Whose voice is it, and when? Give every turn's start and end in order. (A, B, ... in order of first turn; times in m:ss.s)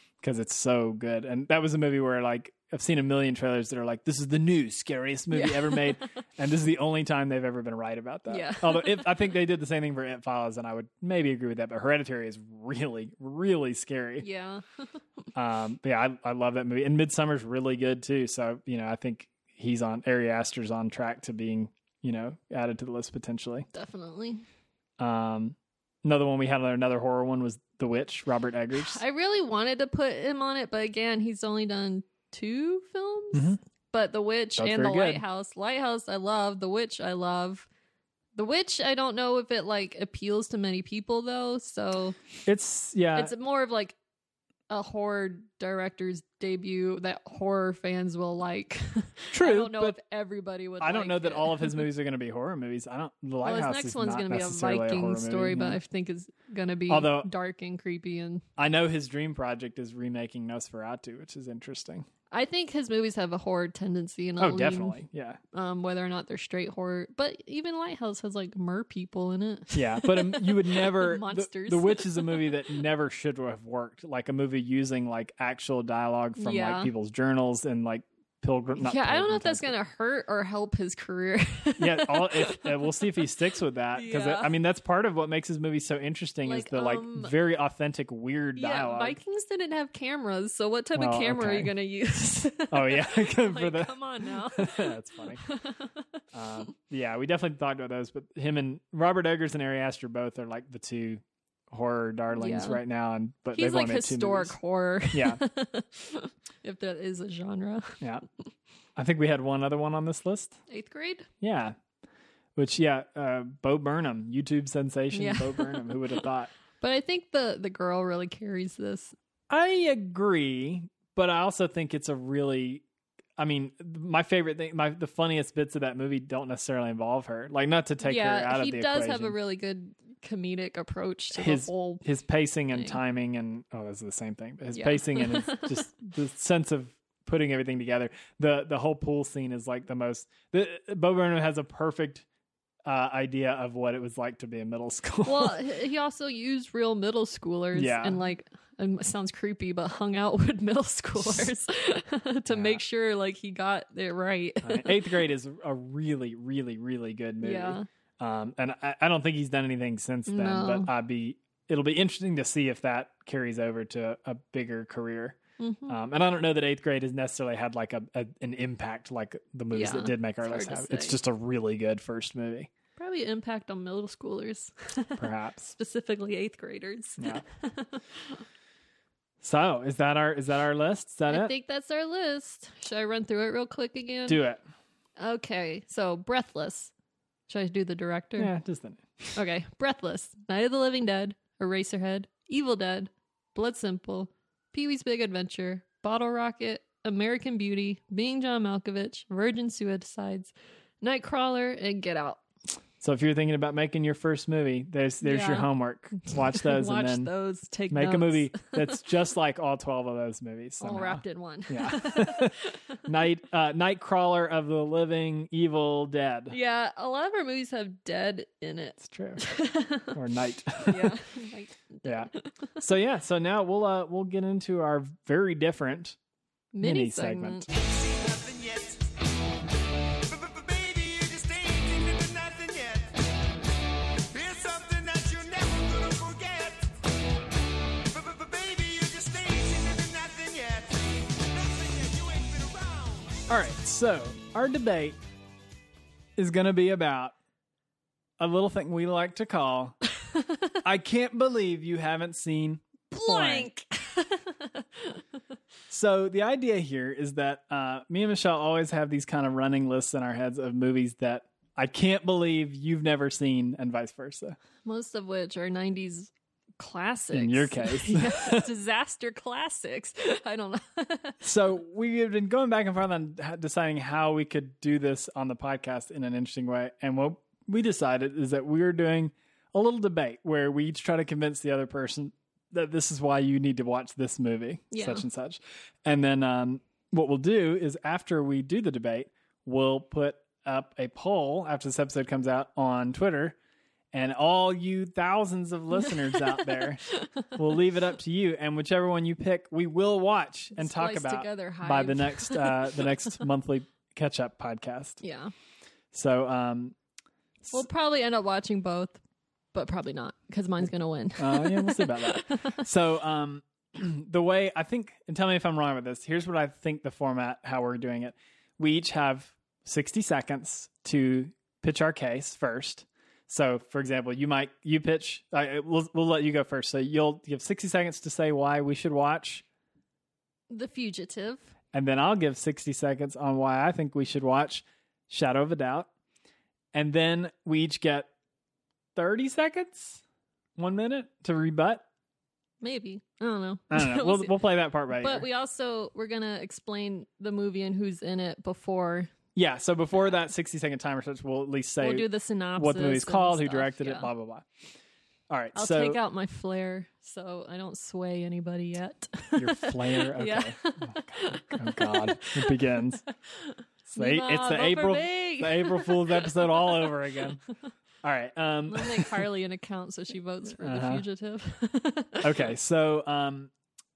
0:00.2-0:14.3 A
0:05.3-0:06.1 B
0:08.3-0:09.1 B
0:14.2-0:14.6 B
0:15.4-0:23.7 A
0:23.7-0:24.4 B
0:25.0-0:29.0 A
0:28.7-0:37.7 B
0:33.3-0:33.6 A
0:34.6-0:35.2 A
0:38.4-0:42.2 B
0:42.4-0:43.3 A
0:43.2-0:44.0 B
0:44.7-0:51.8 B
0:49.3-0:50.0 A
0:50.8-0:55.8 A
0:53.4-0:58.4 B
0:56.9-0:57.3 A
0:58.6-1:02.1 A
1:02.3-1:05.0 B
1:04.4-1:05.4 A
1:05.5-1:12.5 B
1:09.7-1:19.7 A
1:16.4-1:16.9 B
1:18.8-1:22.8 B
1:21.8-1:29.2 A
1:23.9-1:24.5 B
1:26.4-1:27.3 B
1:28.6-1:36.0 B
1:31.0-1:31.7 A
1:32.7-1:35.4 A
1:36.3-1:44.6 A
1:42.3-1:42.8 B
1:43.5-1:48.0 B
1:45.1-1:45.4 A
1:49.0-1:50.6 A
1:50.7-1:51.3 B
1:51.4-1:51.8 A
1:52.6-1:56.5 A
1:55.1-1:56.2 B
1:56.8-1:59.2 B
1:59.5-2:02.8 A
2:03.4-2:09.4 A
2:08.0-2:12.0 B
2:11.4-2:22.3 A
2:14.7-2:15.8 B
2:22.8-2:25.6 A
2:25.2-2:35.2 B
2:27.8-2:28.2 A
2:31.2-2:31.5 A
2:32.5-2:32.8 A
2:34.6-2:52.7 A
2:37.4-2:37.8 B
2:40.3-2:40.9 B
2:45.6-2:46.0 B
2:49.7-2:51.2 B
2:53.0-2:58.4 B
2:55.2-2:55.7 A
2:59.4-3:01.5 A
3:01.3-3:04.4 B
3:04.3-3:04.6 A
3:05.2-3:06.9 B
3:07.5-3:08.5 B
3:08.4-3:09.4 A
3:09.4-3:22.4 B
3:23.0-3:27.3 A
3:25.2-3:28.8 B
3:27.9-3:36.6 A
3:30.8-3:32.5 B
3:36.5-3:40.1 B
3:39.0-3:39.4 A
3:40.1-3:41.2 A
3:40.9-3:42.8 B
3:42.0-3:46.2 A
3:46.7-3:47.7 B
3:46.8-3:47.7 A
3:47.8-3:49.0 C
3:50.3-3:53.2 C
3:54.3-3:56.9 C
3:58.1-4:03.4 C
4:03.5-4:05.2 A
4:06.4-4:07.3 A
4:08.4-4:10.0 A
4:10.8-4:13.7 A
4:13.1-4:15.2 B
4:15.9-4:24.6 A
4:24.8-4:31.4 B
4:27.3-4:28.7 A
4:31.4-4:53.6 A
4:44.9-4:45.2 B
4:54.1-5:05.2 A
5:00.8-5:03.1 B
5:05.2-5:05.5 B
5:06.1-5:07.0 A
5:07.7-5:09.2 B
5:09.7-5:12.8 B
5:11.4-5:29.6 A
5:30.7-5:31.7 B
5:31.9-5:36.1 A
5:36.9-5:38.3 A
5:39.2-5:40.2 A
5:40.8-5:42.0 A
5:42.8-5:44.6 B
5:43.9-5:45.5 A
5:45.1-5:49.3 B
5:49.6-5:54.7 A
5:52.0-5:54.3 B
5:55.5-5:56.2 A
5:55.8-6:02.8 B
5:59.6-6:03.2 A
6:03.5-6:06.9 B
6:04.1-6:07.6 A
6:08.2-6:09.4 A
6:08.9-6:12.6 B
6:10.8-6:11.2 A
6:12.4-6:13.7 A